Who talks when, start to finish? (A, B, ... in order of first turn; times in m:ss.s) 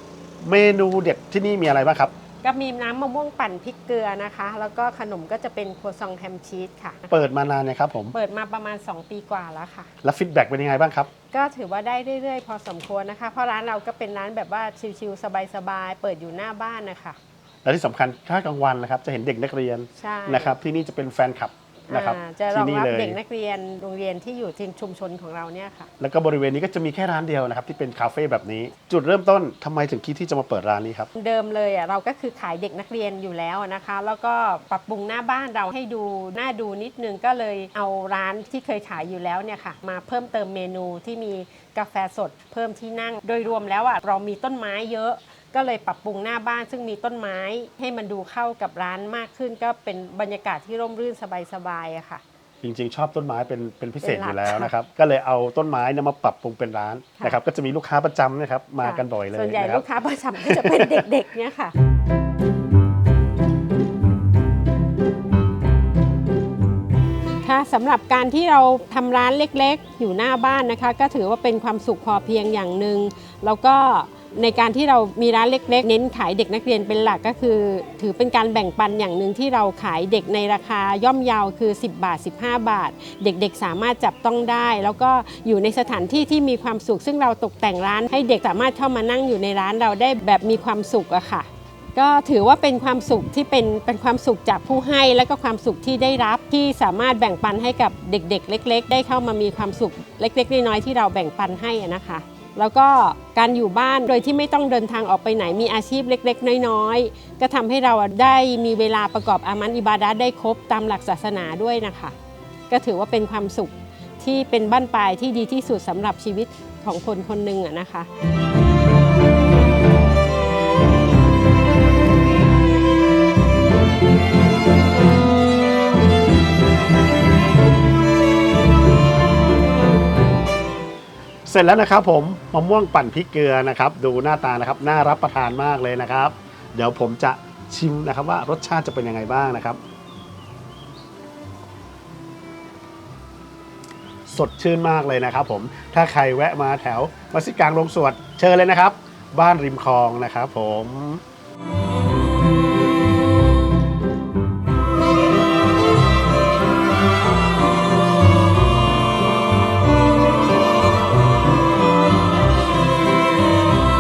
0:00.4-0:02.1 A
0:02.4-0:07.1 B
0:07.1-0:08.2 A
0:08.1-0:09.9 B
0:10.0-0:11.1 A
0:11.3-0:17.2 B
0:17.6-0:23.2 A
0:20.0-0:20.5 B
0:21.9-0:25.9 B
0:26.0-0:31.1 A
0:31.2-0:52.2 B
0:52.6-0:59.8 A
0:54.0-0:54.7 B
0:58.8-1:01.7 B
1:00.4-1:01.0 A
1:07.4-1:52.2 B
1:52.7-1:58.1 B
2:11.5-2:19.8 A
2:24.3-2:31.2 A